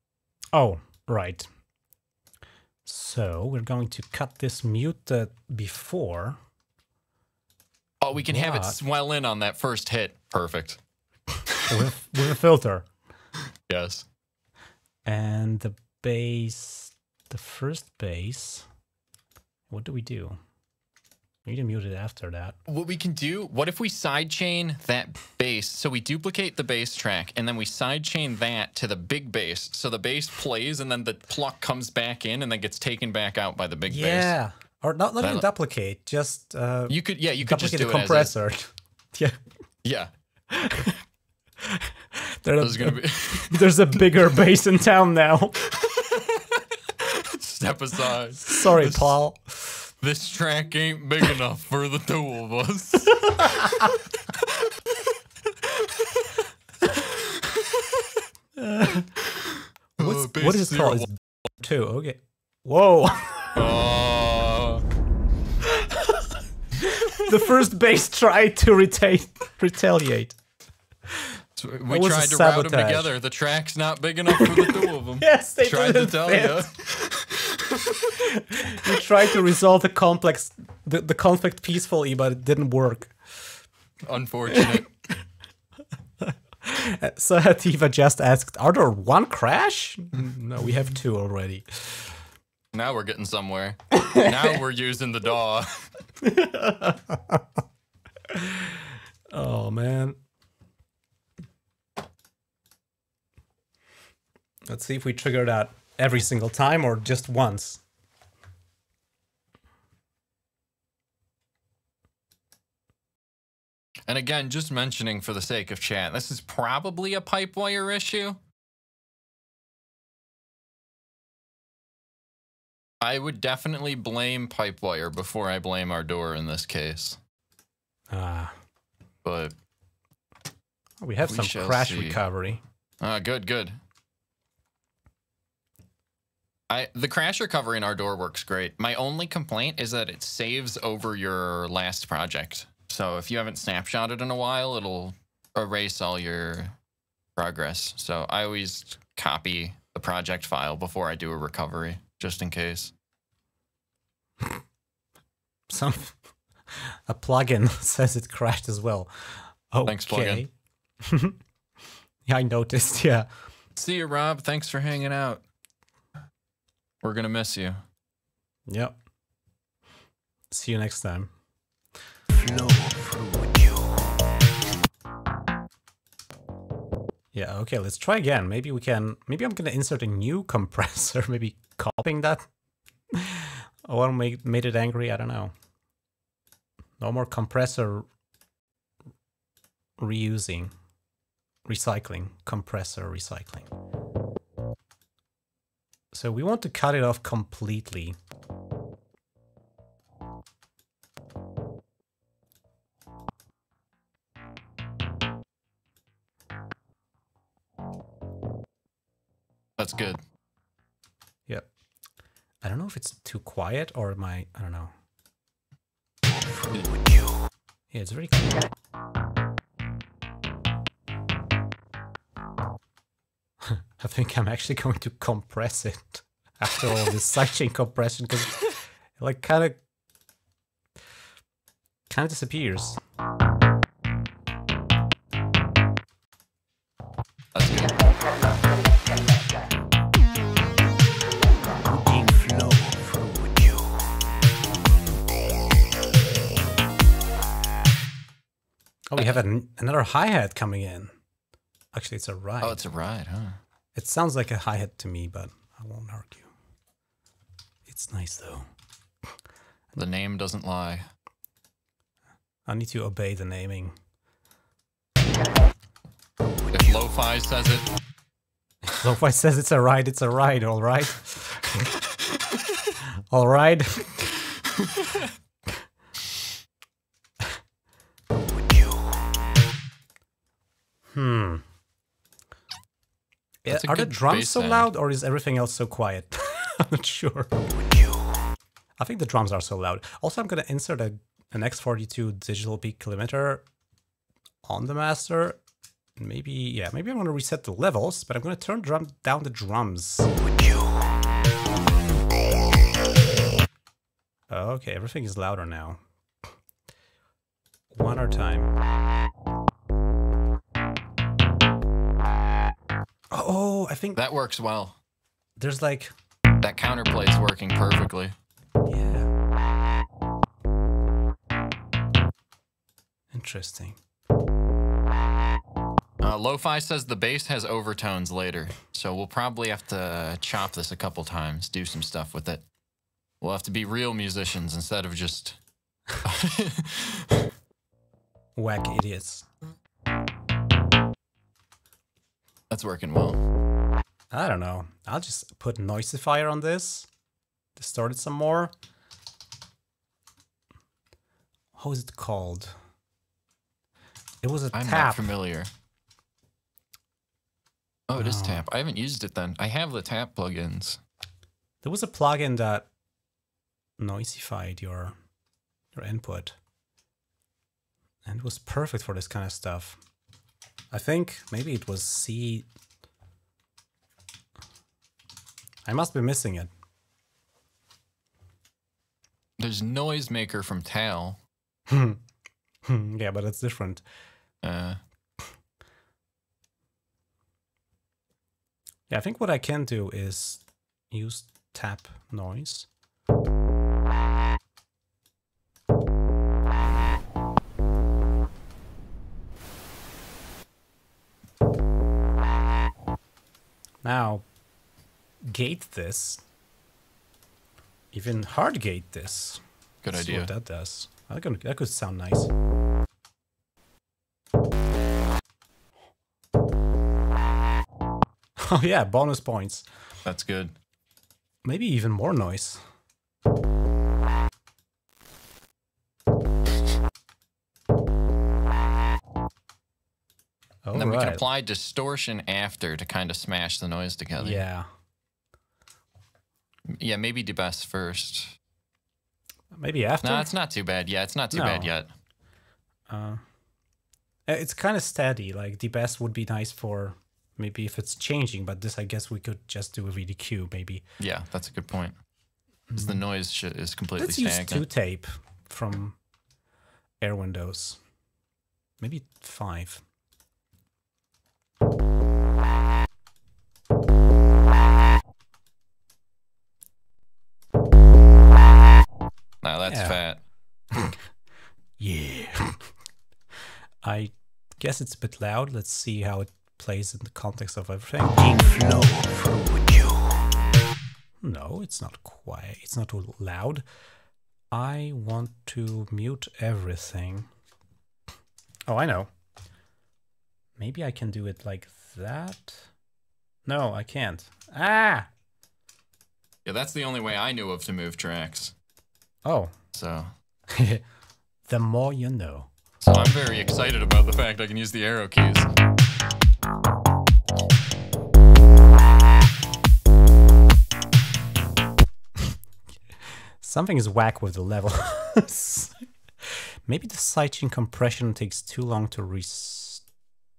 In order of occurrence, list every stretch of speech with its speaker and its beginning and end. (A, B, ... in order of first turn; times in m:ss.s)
0:00.5-0:01.5 A
0:02.8-0:06.4 A
0:08.0-0:10.8 B
0:08.3-0:08.8 A
0:11.7-0:12.9 A
0:13.7-0:14.1 B
0:15.0-0:18.7 A
0:19.7-0:20.4 A
0:21.4-0:22.6 A
0:22.7-0:34.3 B
0:33.9-0:39.4 A
0:35.2-0:35.5 B
0:36.9-0:38.4 B
0:39.8-0:40.1 B
0:40.5-0:41.0 A
0:41.6-0:45.6 A
0:42.6-0:43.7 B
0:45.7-0:49.2 B
0:48.5-0:49.6 A
0:50.0-0:53.9 B
0:57.3-0:57.9 B
0:58.6-0:59.1 A
0:59.4-1:01.1 B
1:00.0-1:03.5 A
1:03.5-1:04.8 B
1:05.6-1:10.4 A
1:06.9-1:07.2 B
1:11.6-1:18.3 B
1:11.9-1:13.1 A
1:14.3-1:16.7 A
1:18.2-1:23.4 A
1:24.0-1:24.9 B
1:24.5-1:24.8 A
1:26.2-1:32.1 A
1:32.7-1:35.9 B
1:36.2-1:37.5 A
1:38.3-1:40.2 A
1:44.7-1:47.8 A
1:54.1-1:58.4 B
2:03.0-2:07.2 B
2:08.1-2:08.6 A
2:09.2-2:09.5 B
2:11.0-2:12.6 A
2:11.3-2:12.2 B
2:13.0-2:13.8 B
2:16.7-2:26.8 B
2:27.4-2:32.9 B
2:35.7-2:36.2 A
2:36.7-2:40.5 A
2:39.9-2:40.4 B
2:41.0-2:41.4 A
2:42.3-2:43.3 A
2:43.8-2:45.4 B
2:47.0-2:47.8 B
2:48.7-2:49.0 A
2:50.5-2:51.3 A
2:52.3-2:54.1 C
2:57.3-3:02.5 A
3:03.1-3:05.5 A
3:07.0-3:08.1 A
3:10.0-3:10.7 A
3:11.7-3:13.7 A
3:16.1-3:18.2 A
3:29.8-3:30.2 B
3:32.6-3:34.9 A
3:36.3-3:37.5 C
3:37.9-3:38.7 A
3:43.6-3:49.8 A
3:52.1-3:53.0 A
3:57.5-3:58.0 B
4:01.8-4:04.1 C
4:09.1-4:11.1 A
4:09.2-4:09.4 B
4:11.9-4:12.8 A
4:12.6-4:13.6 B
4:14.0-4:16.5 A
4:17.9-4:18.7 A
4:20.0-4:21.1 B
4:22.7-4:24.0 A
4:26.7-4:27.9 B
4:28.9-4:31.9 A
4:33.3-4:34.4 A
4:38.4-4:39.3 C
4:41.1-4:41.6 A
4:43.6-4:47.5 A
4:43.7-4:44.9 B
4:47.7-4:48.5 C
4:49.0-4:53.6 A
4:54.6-4:55.6 A
4:56.2-5:00.3 A
5:00.3-5:01.1 C
5:04.5-5:06.0 A
5:07.9-5:08.7 A
5:13.3-5:14.2 A
5:14.2-5:15.0 B
5:15.6-5:16.1 A
5:16.6-5:18.4 B
5:18.9-5:19.3 A
5:23.3-5:24.0 A
5:26.2-5:32.6 B
5:33.4-5:35.6 B
5:36.2-5:37.4 B
5:38.6-5:39.5 A
5:42.7-5:43.4 B
5:44.3-5:47.1 A
5:47.8-5:48.7 A
5:51.8-5:52.7 A
5:54.4-5:55.3 A
5:54.7-5:55.7 B
5:58.1-6:01.0 B
5:58.2-5:58.6 A
6:01.8-6:02.9 A
6:04.0-6:05.2 A
6:06.0-6:06.6 A
6:08.2-6:10.0 A
6:10.9-6:12.7 A
6:15.8-6:16.7 A
6:19.6-6:21.4 B
6:21.9-6:22.2 A
6:22.8-6:24.0 A
6:24.6-6:25.0 B
6:29.1-6:32.9 A
6:44.0-6:44.4 A
6:45.4-6:46.4 A
6:48.1-6:49.6 A
6:50.0-6:50.5 B
6:50.1-6:52.5 A
6:58.6-6:59.9 A
7:00.2-7:00.7 B
7:01.6-7:02.8 A
7:10.9-7:11.4 A
7:10.9-7:14.6 B
7:14.4-7:14.9 A
7:16.9-7:18.6 B
7:19.7-7:20.5 A
7:20.2-7:22.1 B
7:21.5-7:21.9 A
7:23.1-7:23.4 A
7:24.5-7:31.0 A
7:31.2-7:32.2 B
7:32.9-7:34.8 B
7:34.2-7:36.2 A
7:37.2-7:38.0 A
7:39.0-7:40.0 A
7:49.6-7:50.4 B
7:49.9-7:50.2 A
7:50.9-7:51.2 A
7:52.0-7:52.6 C
7:54.0-7:58.3 A
7:58.3-8:00.6 C
8:01.4-8:03.8 A
8:04.7-8:07.5 A
8:08.9-8:09.3 A
8:10.8-8:12.9 A
8:13.7-8:15.3 A
8:16.6-8:18.7 B
8:19.4-8:19.8 A
8:19.9-8:20.3 B
8:20.7-8:21.0 A
8:21.7-8:22.7 A
8:23.0-8:25.7 B
8:33.2-8:40.1 A